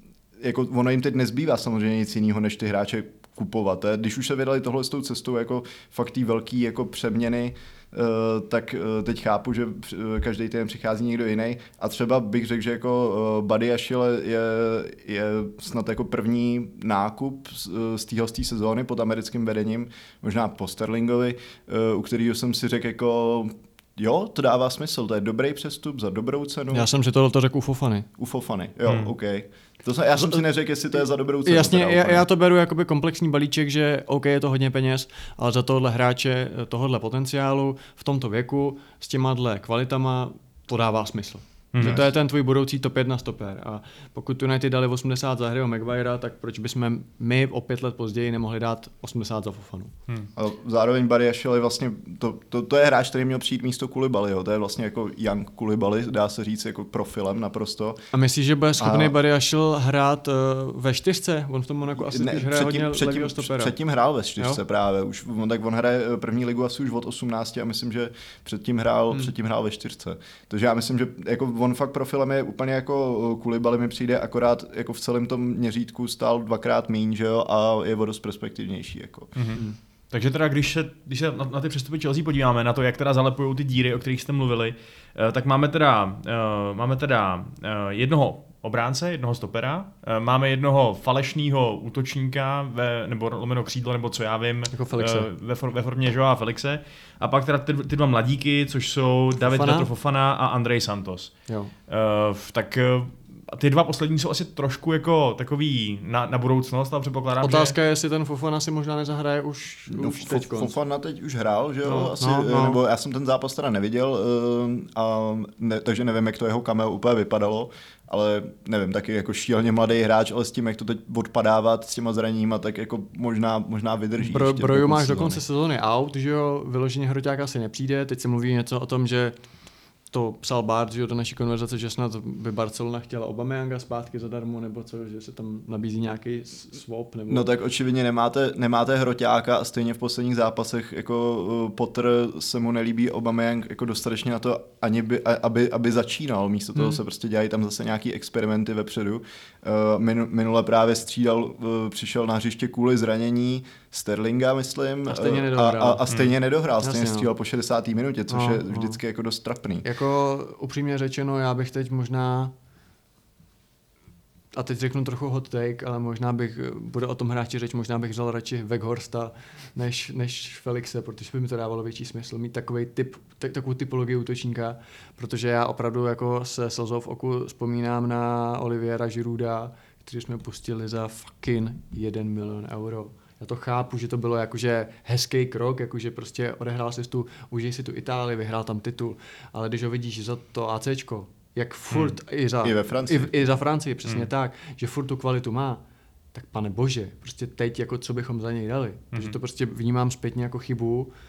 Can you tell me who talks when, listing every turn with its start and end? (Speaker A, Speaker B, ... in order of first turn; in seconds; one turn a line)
Speaker A: 0.4-26.9
Speaker B: 26.7-28.1
Speaker A: 28.2-32.2
Speaker C: 28.9-29.1
Speaker B: 31.4-49.9
Speaker C: 41.7-42.0
Speaker A: 41.8-42.0
Speaker A: 50.4-58.0
Speaker B: 58.1-63.7
Speaker A: 58.8-59.1
Speaker A: 62.0-79.3
Speaker C: 79.3-101.3
Speaker B: 94.7-95.3
Speaker B: 99.4-99.9
Speaker C: 101.9-107.7
Speaker B: 107.4-110.7
Speaker A: 109.9-125.4
Speaker B: 111.8-112.8
Speaker B: 124.2-129.3
Speaker B: 130.1-137.5
Speaker A: 137.3-159.8
Speaker B: 155.1-156.0
Speaker B: 156.8-157.3
Speaker B: 158.3-159.0
Speaker B: 159.8-162.5
Speaker B: 164.5-195.8
Speaker A: 192.6-193.6
Speaker B: 196.3-201.1